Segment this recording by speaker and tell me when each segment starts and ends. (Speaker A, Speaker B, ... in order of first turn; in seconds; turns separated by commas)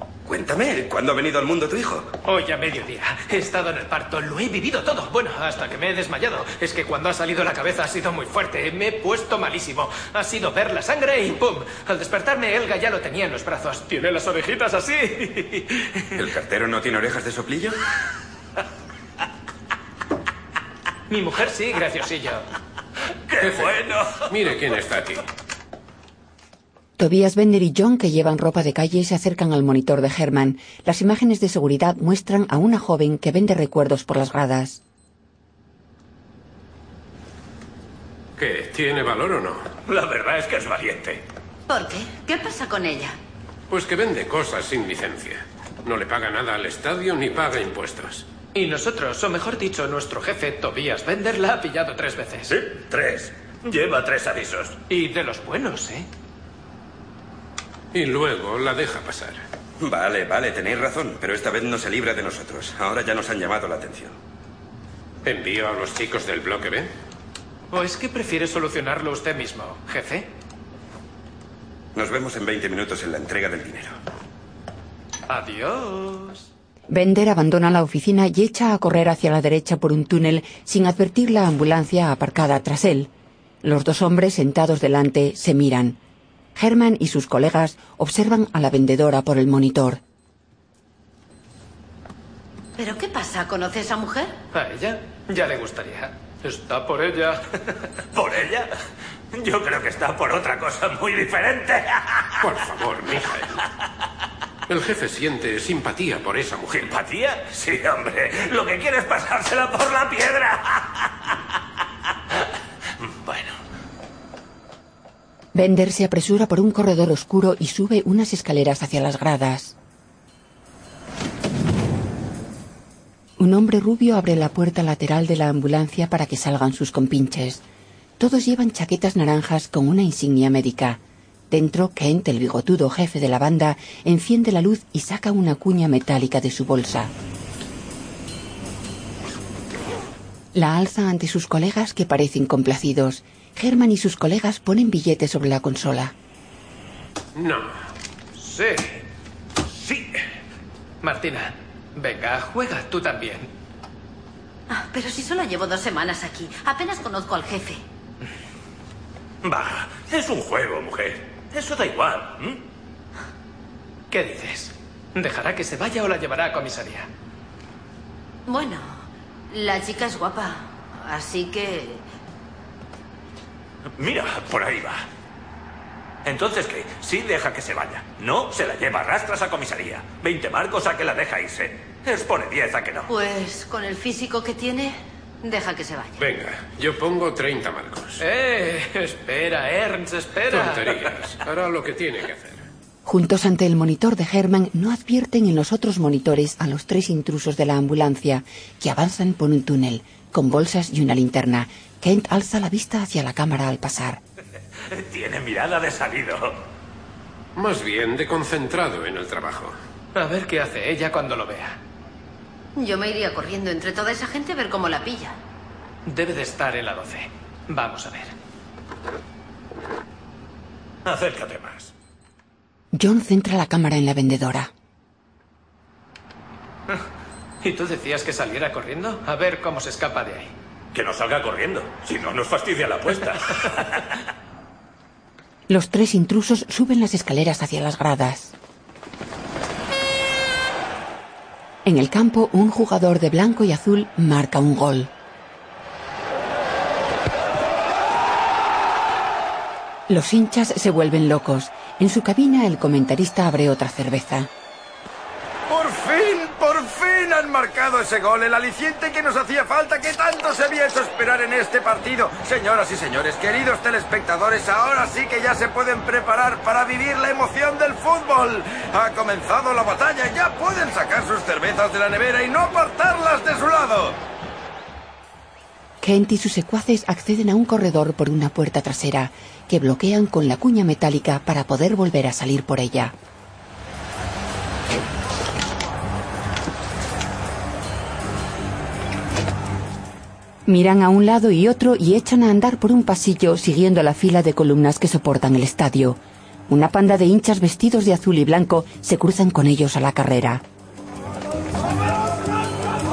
Speaker A: 0.3-2.0, Speaker B: 2.2-15.7, Speaker A: 16.1-17.8, Speaker B: 21.1-22.5, Speaker C: 23.3-24.2, Speaker D: 23.4-25.2, Speaker E: 27.0-34.8, Speaker D: 38.4-39.7, Speaker C: 39.9-41.2, Speaker F: 41.7-43.2, Speaker D: 43.7-48.2, Speaker B: 48.5-52.5, Speaker C: 52.5-54.8, Speaker B: 54.9-56.1, Speaker D: 57.9-59.4, Speaker A: 59.8-64.2, Speaker D: 65.2-66.9, Speaker B: 67.7-70.3, Speaker A: 71.9-73.9, Speaker B: 75.3-76.4, Speaker E: 76.9-83.1, Speaker E: 83.6-86.0, Speaker E: 86.5-90.0, Speaker F: 92.8-94.4, Speaker B: 94.5-97.4, Speaker C: 98.1-98.7, Speaker C: 99.3-102.3, Speaker D: 102.4-103.6, Speaker D: 104.7-106.9, Speaker C: 106.8-110.8, Speaker E: 115.5-119.7, Speaker E: 123.4-127.6, Speaker E: 128.2-137.1, Speaker E: 140.5-146.1, Speaker D: 147.4-147.7, Speaker B: 148.4-148.9, Speaker B: 151.0-153.5, Speaker F: 154.7-157.8, Speaker C: 159.4-162.6, Speaker B: 164.1-167.1, Speaker F: 168.5-172.0, Speaker C: 173.9-175.1, Speaker C: 176.2-183.1, Speaker F: 183.1-186.2, Speaker D: 186.2-188.2, Speaker B: 188.2-191.0, Speaker D: 190.5-192.7, Speaker E: 193.0-204.2, Speaker C: 204.9-206.6, Speaker D: 207.6-209.8, Speaker B: 210.1-211.8, Speaker F: 212.8-215.4, Speaker B: 216.1-218.3, Speaker C: 221.0-221.9, Speaker E: 222.9-224.7, Speaker B: 227.6-230.5, Speaker C: 230.9-234.0, Speaker E: 235.7-238.5, Speaker E: 241.8-245.1, Speaker E: 250.1-254.5, Speaker G: 255.7-274.2, Speaker E: 276.0-283.1, Speaker E: 290.7-300.6